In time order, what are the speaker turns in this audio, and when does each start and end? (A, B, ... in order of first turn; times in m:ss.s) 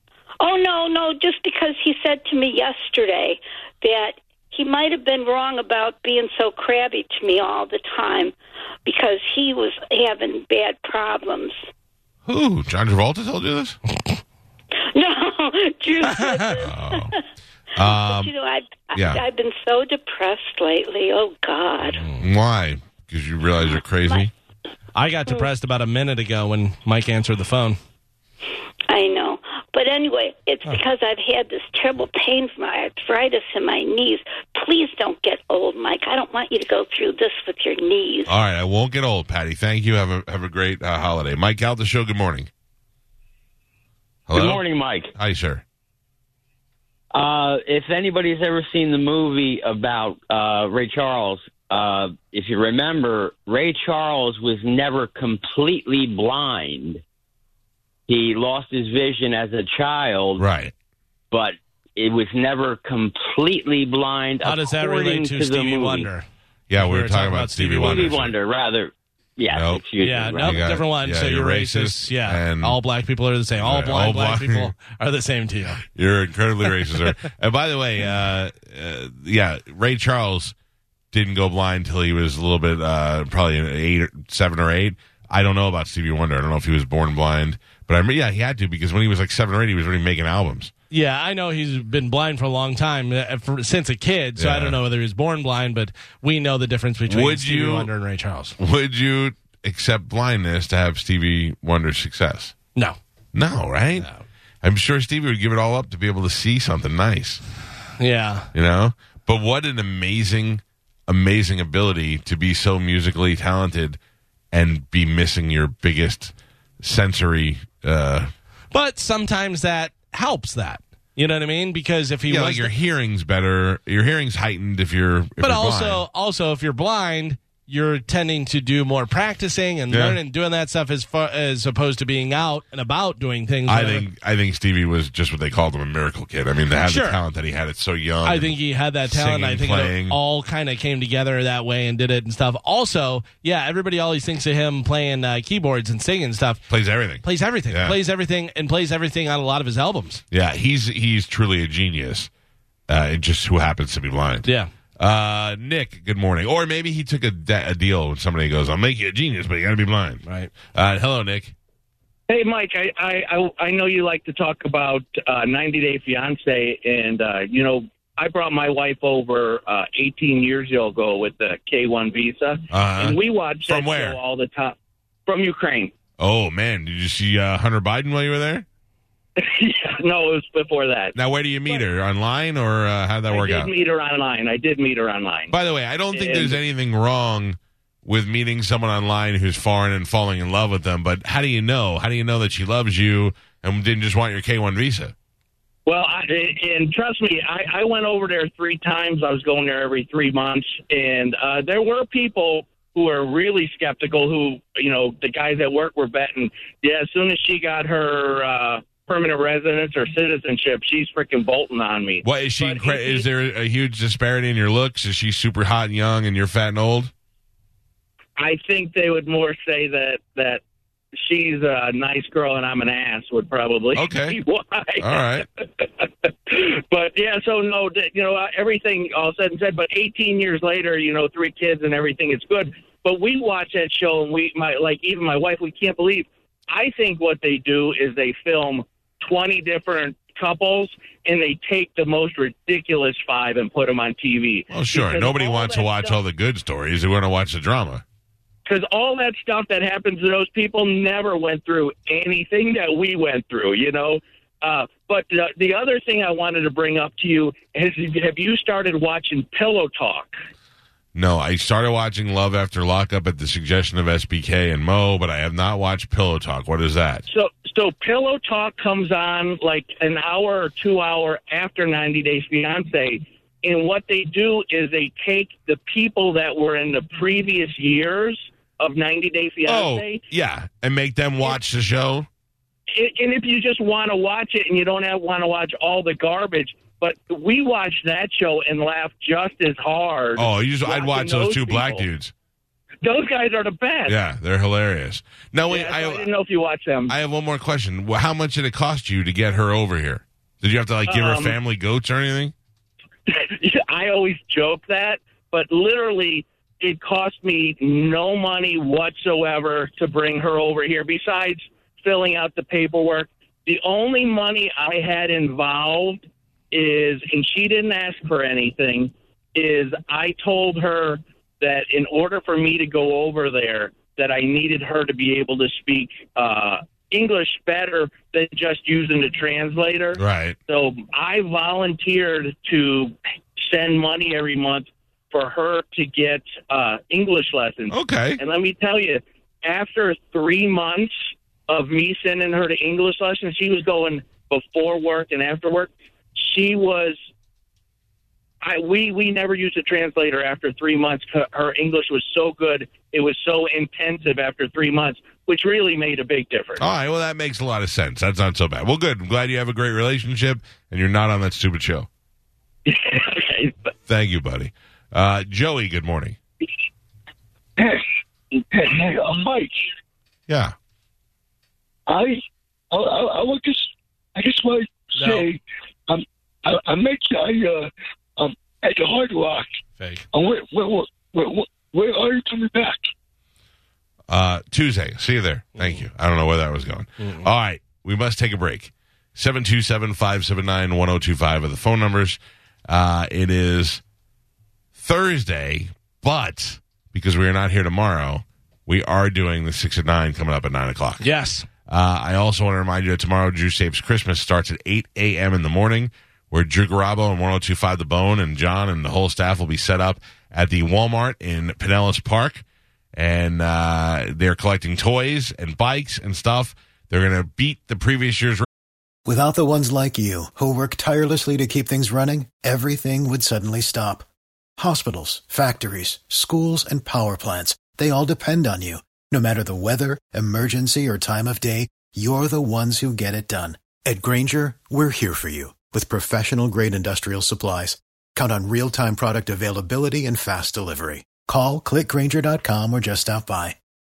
0:00.4-0:08.3 A
0:08.8-0:11.6 A
0:12.2-0:13.8 B
0:14.9-0:17.1 A
0:16.0-0:16.6 C
0:16.6-0:17.1 B
0:17.8-0:18.3 B
0:17.8-0:22.0 A
0:18.9-0:19.2 B
0:21.9-0:22.2 C
0:22.2-0:24.3 B
0:23.6-0:24.3 A
0:24.9-0:27.8 C
0:28.9-0:38.3 A
0:38.3-0:42.5 B
0:44.3-0:44.6 B
0:44.3-0:45.1 D
0:45.2-0:45.6 B
0:47.1-0:57.0 D
0:58.1-1:00.4 D
1:00.4-1:00.7 B
1:01.3-1:06.1 D
1:04.4-1:06.2 C
1:06.7-1:08.3 B
1:06.8-1:08.3 C
1:07.8-1:10.7 D
1:09.5-1:12.8 B
1:10.0-1:15.8 C
1:13.6-1:14.7 B
1:15.9-1:20.5 B
1:16.6-1:17.1 C
1:21.1-1:30.7 B
1:30.9-1:38.5 C
1:34.4-1:34.8 B
1:37.1-1:37.9 B
1:38.6-1:42.5 B
1:43.3-1:44.1 B
1:44.0-1:44.2 C
1:44.6-1:47.4 B
1:48.0-1:48.5 C
1:48.5-1:54.0 B
1:54.5-1:58.3 B
1:58.7-2:02.7 C
2:02.3-2:06.0 B
2:05.4-2:14.0 C
2:09.9-2:10.2 B
2:13.7-2:18.5 B
2:16.8-2:17.2 C
2:18.2-2:26.7 C
2:19.1-2:20.2 B
2:26.7-2:28.0 B
2:27.2-2:30.2 C
2:30.3-2:32.3 B
2:32.9-2:41.5 B
2:40.2-2:40.5 C
2:42.3-2:55.9 E
2:52.7-2:54.2 B
2:56.2-2:58.6 B
2:59.4-3:01.2 E
3:01.1-3:03.7 B
3:03.3-3:05.5 E
3:05.5-3:15.1 B
3:06.1-3:06.6 E
3:15.8-3:33.2 E
3:32.2-3:37.1 B
3:38.4-3:40.6 E
3:41.2-3:45.1 E
3:43.9-3:44.4 B
3:45.0-3:45.4 B
3:45.8-4:06.2 E
4:04.7-4:08.0 B
4:08.6-4:20.4 E
4:21.1-4:27.2 B
4:27.3-4:40.2 E
4:39.6-4:42.3 B
4:42.9-4:52.0 E
4:50.4-4:52.3 B
4:53.0-4:54.2 E
4:54.1-4:56.3 B
4:55.7-4:57.1 E
4:57.1-5:02.5 B
5:01.1-5:01.6 E
5:03.3-5:41.1 E
5:30.2-5:30.6 B
5:37.9-5:38.4 B
5:41.7-5:47.2 E
5:48.6-5:56.9 E
5:56.8-6:02.1 B
6:02.8-6:03.9 E
6:04.1-6:06.4 B
6:07.8-6:08.0 F
6:08.7-6:09.9 F
6:10.5-6:10.7 B
6:12.1-6:12.4 F
6:12.9-6:19.8 F
6:15.2-6:15.5 C
6:20.0-6:20.2 C
6:20.3-6:23.1 F
6:24.3-6:34.0 B
6:25.8-6:26.0 C
6:27.2-6:27.5 C
6:34.9-6:41.3 B
6:41.2-6:41.7 C
6:41.9-6:58.6 B
6:59.2-7:04.2 G
7:04.8-7:23.8 G